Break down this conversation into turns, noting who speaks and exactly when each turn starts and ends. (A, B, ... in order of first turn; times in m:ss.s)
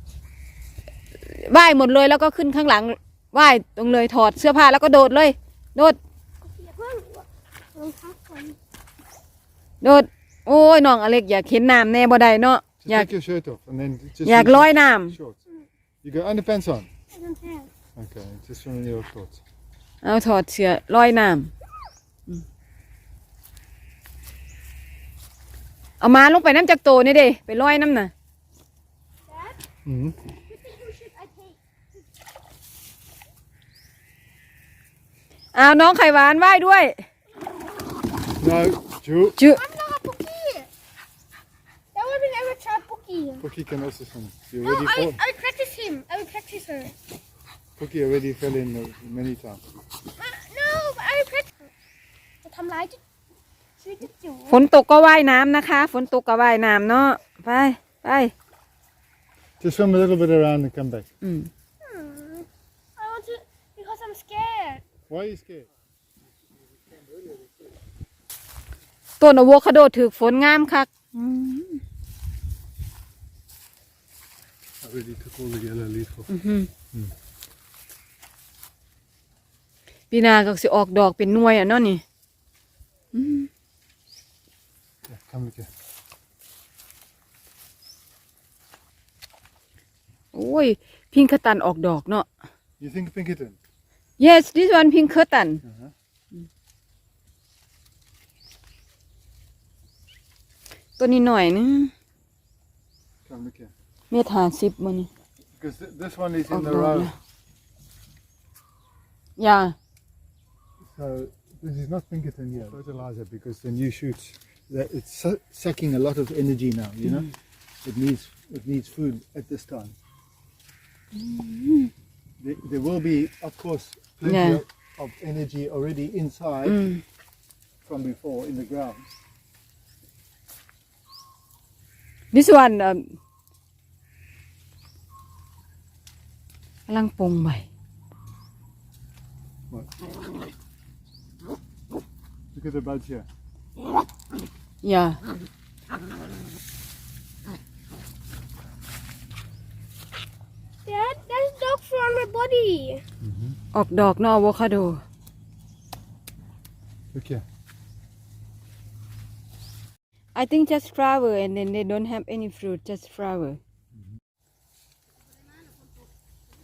0:01.2-0:06.0 A
0:06.5-0:08.6 B
0:09.8-0:13.1 A
0:12.8-0:15.4 C
0:14.2-0:15.2 A
0:16.0-0:16.9 C
0:17.1-0:17.7 B
0:18.0-0:19.4 C
0:20.0-0:21.5 A
0:26.0-0:28.1 A
0:29.8-0:30.2 C
0:30.5-0:31.5 B
0:35.5-0:37.0 A
0:38.4-0:39.4 C
0:39.4-0:39.6 A
0:39.6-0:40.7 B
0:41.9-0:43.4 B
0:43.4-0:45.2 C
0:44.6-0:46.9 B
0:47.8-0:49.6 C
0:50.2-0:51.7 B
0:52.4-0:53.0 B
0:53.8-0:54.6 B
0:54.5-0:58.3 A
0:59.6-1:01.0 C
1:01.2-1:01.5 A
1:01.8-1:04.8 B
1:05.1-1:05.7 C
1:09.2-1:11.8 A
1:14.8-1:16.3 C
1:16.3-1:16.7 A
1:20.1-1:22.0 A
1:23.1-1:23.5 A
1:25.0-1:25.7 C
1:30.3-1:32.3 A
1:32.8-1:33.6 C
1:34.2-1:35.6 A
1:35.6-1:35.9 C
1:41.0-1:41.9 A
1:43.2-1:43.7 C
1:44.1-1:45.1 A
1:45.6-1:47.1 C
1:46.5-1:47.1 A
1:49.4-1:49.7 A
1:50.8-1:57.3 C
1:57.0-1:57.3 A
1:57.8-1:59.9 C
2:01.1-2:01.9 A
2:02.4-2:06.8 C
2:04.2-2:04.6 A
2:06.6-2:07.0 A
2:07.8-2:09.1 C
2:12.3-2:13.1 A
2:16.9-2:17.6 A
2:22.5-2:23.2 C
2:24.8-2:25.2 A
2:30.8-2:33.0 B
2:33.2-2:33.6 C
2:33.7-2:35.0 A
2:37.1-2:37.4 C
2:40.3-2:43.6 A